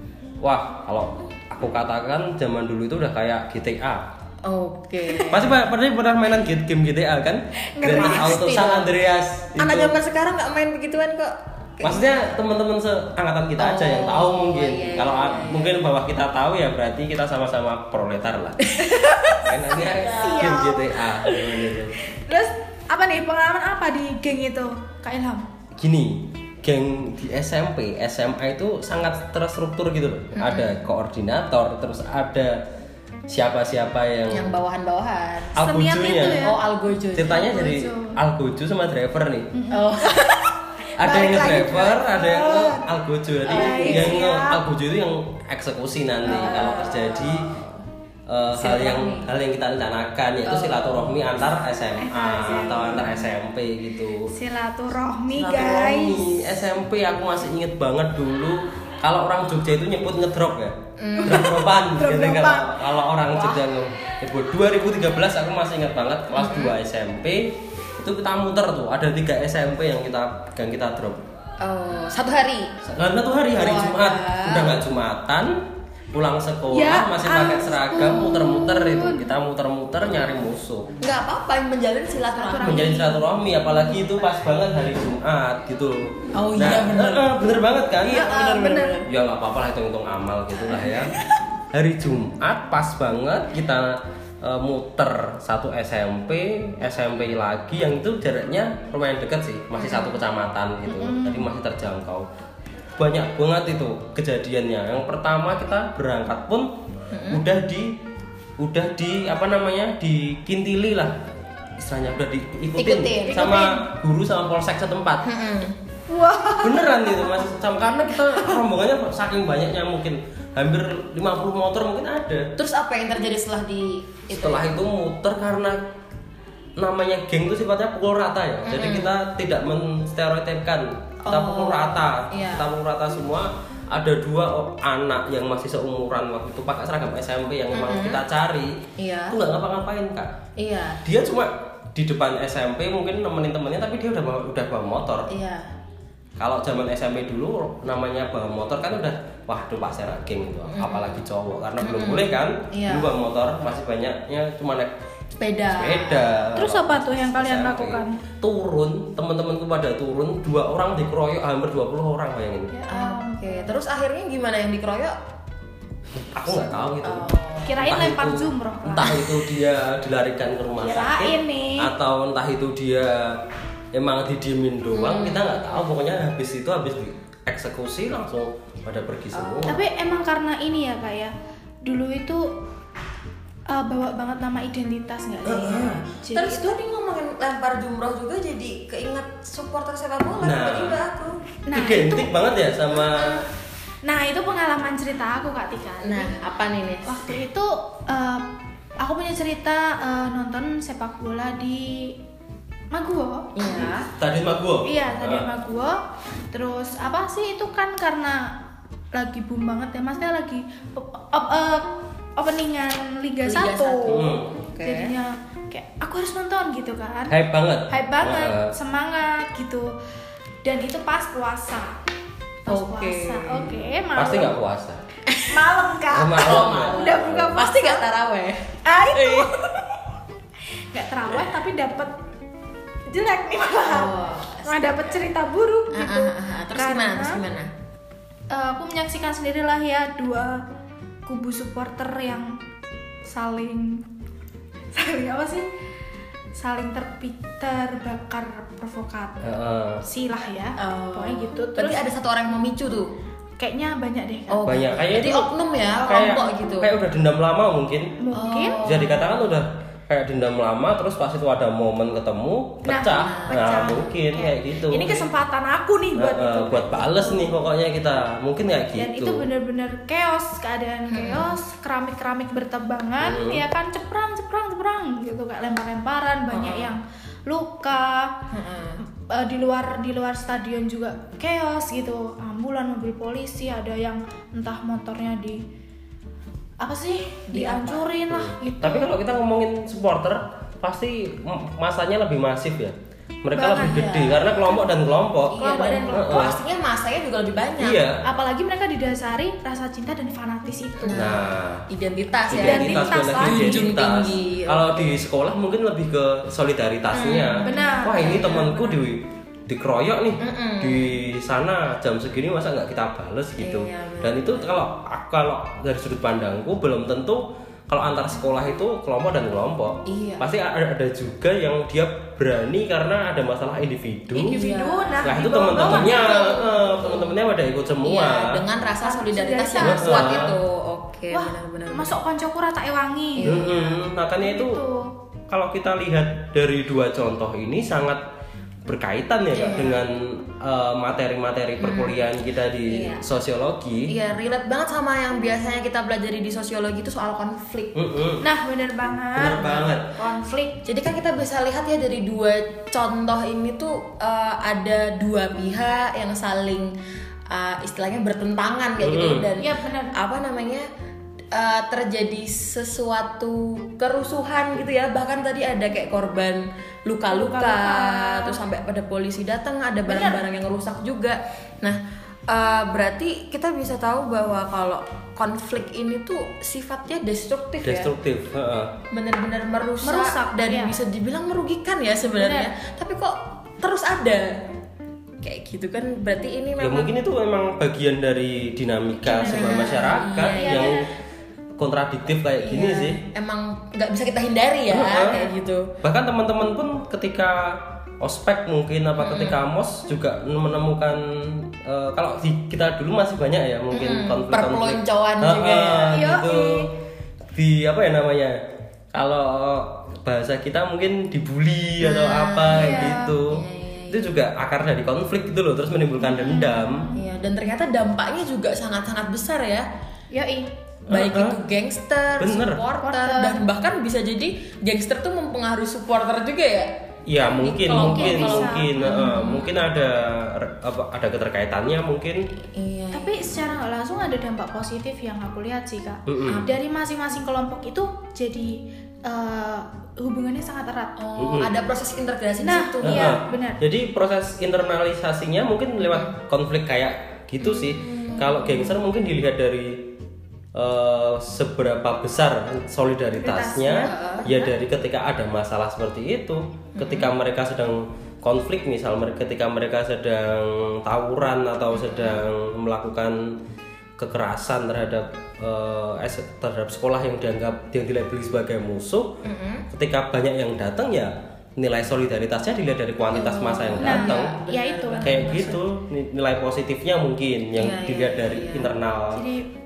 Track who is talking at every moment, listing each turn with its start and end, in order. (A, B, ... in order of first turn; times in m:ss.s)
0:00.4-0:04.1 A
0:04.4-0:05.5 B
0:05.3-0:10.0 A
0:07.7-0:08.5 C
0:07.9-0:08.9 B
0:09.6-0:12.1 B
0:11.8-0:18.7 A
0:13.6-0:15.8 B
0:18.6-0:20.8 B
0:19.4-0:22.0 A
0:20.1-0:20.9 C
0:22.1-0:25.5 C
0:25.8-0:32.6 A
0:30.3-0:30.8 B
0:33.3-0:34.6 A
0:34.3-0:35.6 B
0:35.6-0:36.5 A
0:35.6-0:36.6 C
0:36.4-0:37.4 B
0:37.2-0:39.5 A
0:37.2-0:38.2 C
0:39.5-0:42.9 C
0:39.7-0:40.5 B
0:41.0-0:47.5 A
0:43.5-0:44.1 B
0:43.5-0:44.6 C
0:46.2-0:47.9 B
0:48.3-0:54.3 A
0:48.6-0:49.3 B
0:50.4-0:51.2 B
0:52.0-0:53.2 C
0:54.3-0:56.2 C
0:55.3-1:11.2 A
1:01.0-1:01.4 B
1:01.2-1:02.8 C
1:06.3-1:06.8 B
1:11.6-1:12.7 B
1:12.8-1:20.9 A
1:13.5-1:14.8 B
1:16.7-1:19.3 C
1:21.0-1:23.2 B
1:22.3-1:23.6 C
1:22.6-1:31.2 A
1:26.3-1:27.3 B
1:28.0-1:29.0 C
1:28.1-1:29.1 B
1:30.7-1:31.3 B
1:31.7-1:42.3 A
1:39.8-1:40.1 B
1:40.9-1:41.5 C
1:43.0-1:46.7 A
1:47.1-1:47.4 B
1:47.3-1:48.0 A
1:48.6-1:51.2 A
1:51.8-1:55.3 A
1:52.8-1:53.4 B
1:53.2-1:53.8 C
1:55.2-1:55.8 B
1:56.1-1:57.5 C
1:56.6-2:02.5 A
1:58.2-1:58.6 C
2:02.6-2:04.8 B
2:04.3-2:05.8 A
2:06.8-2:18.8 A
2:08.6-2:09.1 B
2:11.2-2:12.7 B
2:17.7-2:18.2 B
2:19.0-2:19.4 B
2:19.3-2:20.3 A
2:20.6-2:21.0 B
2:21.0-2:25.3 A
2:25.3-2:25.7 B
2:26.4-2:34.9 A
2:30.7-2:31.2 B
2:31.8-2:33.1 B
2:35.4-2:36.5 B
2:35.7-2:42.7 A
2:36.6-2:38.2 C
2:42.7-2:43.8 C
2:42.9-2:45.1 B
2:46.3-2:47.3 A
2:47.0-2:47.8 B
2:47.7-2:49.2 C
2:47.8-2:53.3 A
2:50.8-2:51.9 C
2:53.9-2:59.8 A
2:54.9-2:55.8 B
2:59.3-2:59.8 B
2:59.7-3:01.3 C
3:01.8-3:02.5 C
3:03.7-3:06.8 C
3:05.5-3:06.0 A
3:06.3-3:11.5 B
3:10.4-3:11.0 A
3:11.7-3:12.3 C
3:11.7-3:13.5 A
3:13.2-3:13.4 B
3:14.0-3:16.4 C
3:16.0-3:17.2 B
3:17.0-3:18.4 C
3:19.0-3:22.1 C
3:22.9-3:23.9 C
3:23.6-3:24.0 B
3:23.7-3:25.5 A
3:24.8-3:26.0 C
3:26.5-3:28.5 C
3:29.1-3:37.4 C
3:33.4-3:35.2 B
3:34.1-3:34.5 A
3:37.3-3:38.7 A
3:37.9-3:39.9 C
3:40.6-3:42.0 C
3:42.6-3:44.6 C
3:42.7-3:43.8 B
3:44.2-3:45.0 A
3:45.3-3:45.8 B
3:45.5-3:48.0 C
3:46.1-3:47.6 A
3:46.4-3:49.5 B
3:48.8-3:50.0 C
3:50.9-3:52.2 C
3:53.1-3:57.4 C
3:53.8-3:55.3 B
3:55.9-3:57.7 B
3:58.5-4:00.6 C
4:01.2-4:02.5 C
4:03.3-4:04.0 C
4:04.9-4:05.7 C
4:06.5-4:12.1 C
4:09.4-4:10.0 A
4:10.8-4:13.1 B
4:13.6-4:15.4 C
4:14.5-4:16.9 B
4:14.6-4:15.5 A
4:16.1-4:18.2 A
4:18.2-4:18.8 C
4:18.4-4:19.4 B
4:18.8-4:25.3 A
4:22.8-4:27.5 C
4:23.2-4:23.6 B
4:26.2-4:29.5 A
4:29.0-4:38.3 C
4:31.1-4:31.6 B
4:33.2-4:33.6 A
4:36.5-4:37.0 B
4:38.5-4:39.0 B
4:39.2-4:45.6 C
4:46.8-4:49.1 C
4:47.5-4:48.1 B
4:48.3-4:56.6 A
4:53.5-4:54.9 C
4:54.0-4:54.4 B
4:55.5-4:58.1 B
4:55.6-4:56.5 C
4:57.8-4:58.2 A
4:58.2-5:01.4 C
5:01.0-5:05.2 B
5:01.1-5:01.9 A
5:02.5-5:04.0 C
5:02.5-5:24.6 A
5:07.1-5:08.5 B
5:07.6-5:09.0 C
5:10.4-5:11.2 B
5:13.6-5:14.7 B
5:20.1-5:20.5 B
5:24.3-5:26.6 C
5:24.5-5:25.3 B
5:25.2-5:28.6 A
5:25.9-5:27.3 B
5:28.0-5:32.1 B
5:29.0-5:30.5 C
5:29.8-5:30.5 A
5:31.3-5:35.1 C
5:33.4-5:33.9 B
5:33.4-5:34.8 A
5:35.5-5:38.2 A
5:38.8-5:44.1 A
5:39.5-5:40.0 B
5:41.8-5:42.3 B
5:42.9-5:43.2 B
5:44.1-5:48.0 B
5:48.0-5:48.5 A
5:48.4-5:50.8 C
5:49.4-5:50.1 A
5:50.8-5:56.9 B
5:57.5-6:00.8 B
5:59.0-5:59.5 A
5:59.6-6:00.1 C
6:01.5-6:18.2 B
6:07.3-6:08.6 C
6:10.1-6:10.4 C
6:17.8-6:18.9 A
6:19.1-6:24.6 B
6:20.0-6:21.0 C
6:22.4-6:22.7 C
6:25.4-6:27.1 B
6:26.8-6:31.1 A
6:29.2-6:31.1 C
6:29.5-6:31.0 B
6:31.8-6:33.2 A
6:32.6-6:36.0 B
6:34.9-6:35.5 A
6:36.0-6:46.9 A
6:39.2-6:39.6 B
6:43.9-6:46.3 B
6:46.1-6:46.9 C
6:47.5-6:48.6 A
6:49.1-6:57.1 A
6:52.0-6:54.4 B
6:52.7-6:53.3 C
6:56.2-6:57.2 C
6:57.2-6:59.9 B
7:00.3-7:00.7 C
7:01.1-7:01.6 A
7:01.1-7:09.7 B
7:02.4-7:02.8 A
7:03.0-7:03.6 C
7:07.3-7:12.4 A
7:07.9-7:09.5 C
7:12.7-7:13.7 B
7:13.1-7:18.7 C
7:16.3-7:16.7 A
7:19.3-7:21.1 C
7:21.2-7:23.2 B
7:21.4-7:21.8 A
7:22.6-7:23.8 C
7:23.0-7:30.1 A
7:27.6-7:29.0 B
7:30.8-7:43.4 A
7:33.4-7:34.7 C
7:34.0-7:34.5 B
7:37.0-7:37.3 B
7:41.9-7:42.4 B
7:44.2-7:49.4 A
7:49.4-7:49.9 B
7:49.9-7:54.5 A
7:53.3-7:55.8 B
7:54.0-7:55.7 C
7:55.2-7:59.4 A
7:57.8-7:58.9 B
7:59.3-7:59.7 C